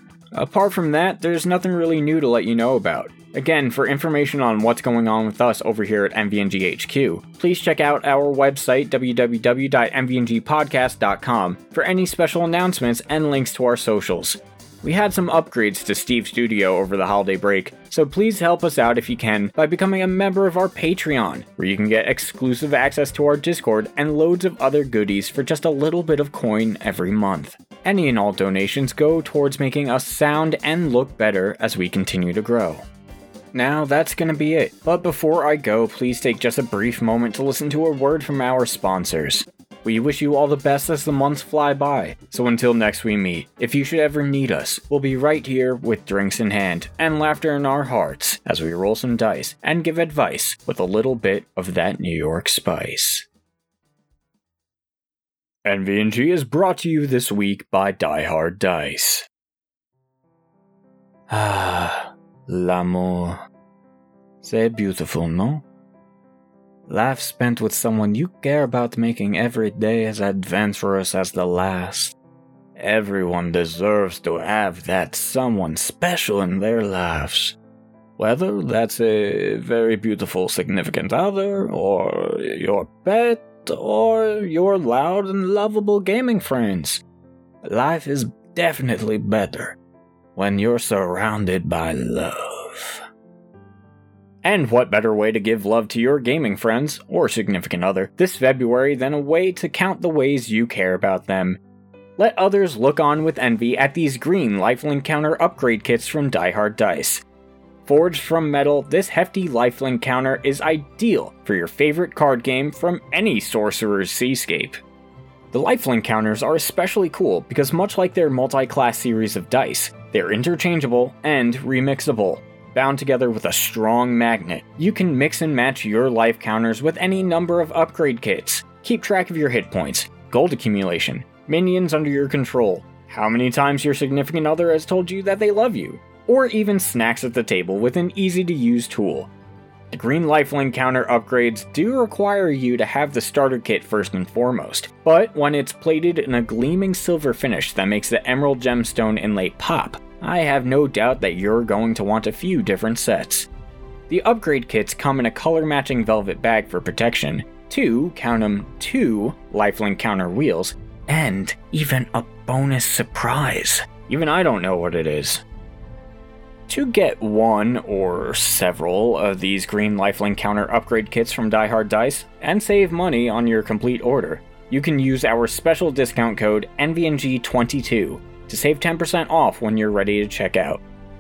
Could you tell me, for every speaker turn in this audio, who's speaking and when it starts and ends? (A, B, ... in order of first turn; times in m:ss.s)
0:00.3-0:32.8 A
0:33.5-0:53.2 A
0:55.6-0:59.2 A
1:01.3-1:03.4 A
1:04.4-1:05.6 A
1:06.9-1:12.1 A
1:12.8-1:17.6 A
1:18.2-1:27.0 A
1:27.6-1:29.8 A
1:30.4-1:33.0 A
1:34.4-1:41.6 A
1:42.2-1:47.2 A
1:47.8-1:54.8 A
1:55.5-2:19.3 A
2:19.9-2:33.5 A
2:34.1-2:45.4 A
2:46.7-3:00.8 A